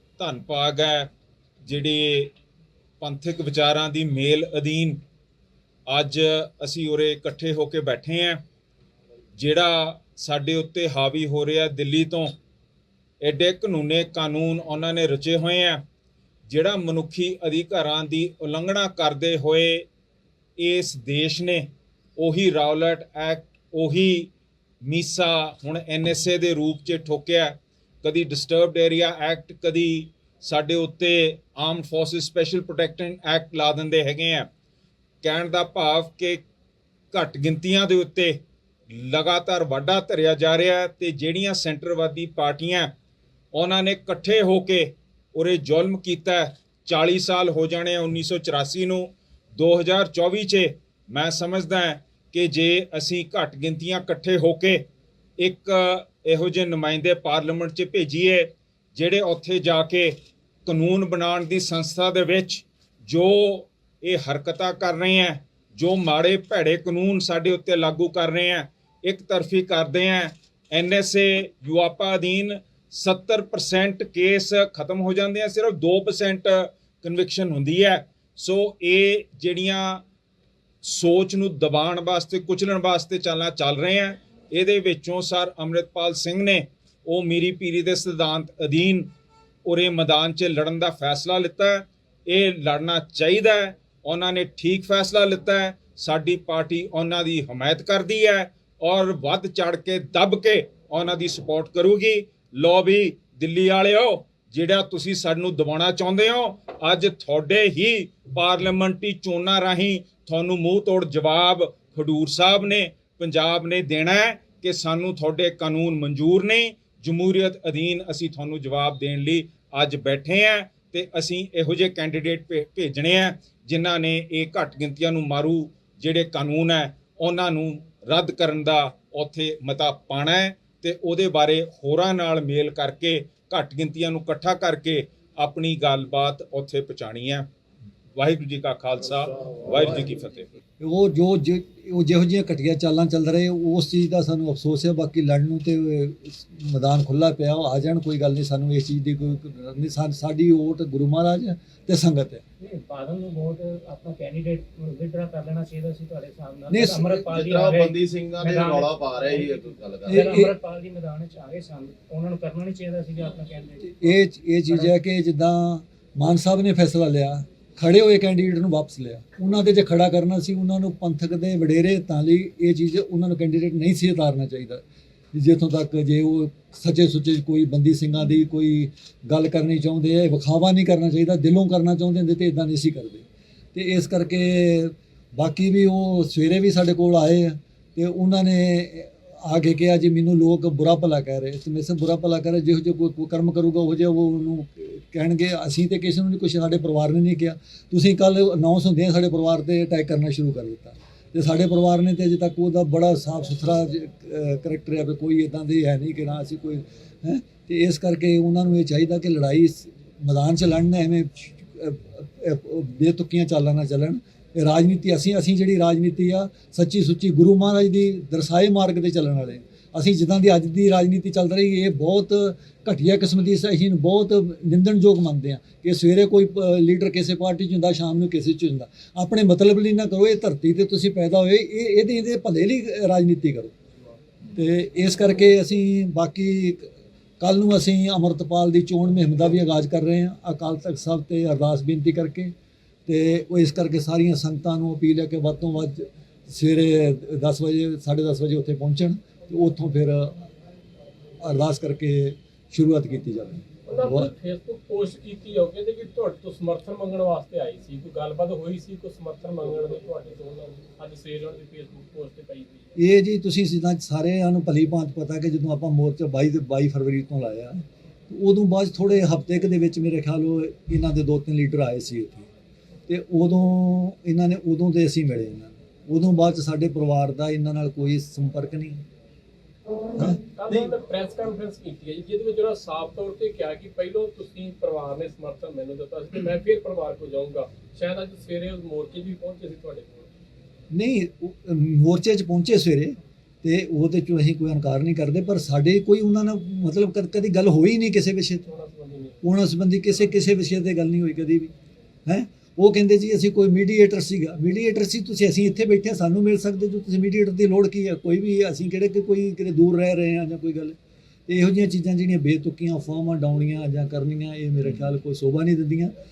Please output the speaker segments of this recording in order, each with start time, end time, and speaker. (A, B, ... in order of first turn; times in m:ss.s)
0:00.2-0:01.1 A
0:01.6-0:02.3 A
0:03.0-0:05.0 A
0:05.9-0:08.4 A
0:09.4-0:12.3 A
0:13.2-0:15.8 A
0:16.5-0:19.8 A
0:20.6-0:21.6 A
0:22.2-0:24.3 A
0:24.8-0:34.5 A
0:35.2-0:36.4 A
0:37.1-0:38.4 A
0:38.9-0:42.9 A
0:43.5-0:54.8 A
0:55.4-1:00.1 A
1:00.6-1:20.0 A
1:20.8-1:29.1 A
1:29.6-2:17.4 A
2:18.2-2:20.5 A
2:20.8-2:32.4 B
2:32.6-2:37.9 C
2:36.7-2:37.1 B
2:37.1-2:40.3 D
2:38.4-2:38.8 C
2:40.0-2:40.6 B
2:40.1-2:43.9 C
2:43.8-2:54.8 B
2:55.3-3:53.7 B
3:54.5-3:56.9 B
3:57.4-4:02.5 B
4:03.1-4:10.4 B
4:11.4-4:14.3 B
4:13.9-4:22.9 E
4:23.0-4:32.5 B
4:33.1-4:39.0 B
4:40.5-4:50.3 E
4:50.9-4:58.6 B
4:58.7-4:59.4 E
4:59.4-5:01.7 B
5:02.3-5:11.0 B
5:11.5-5:16.1 B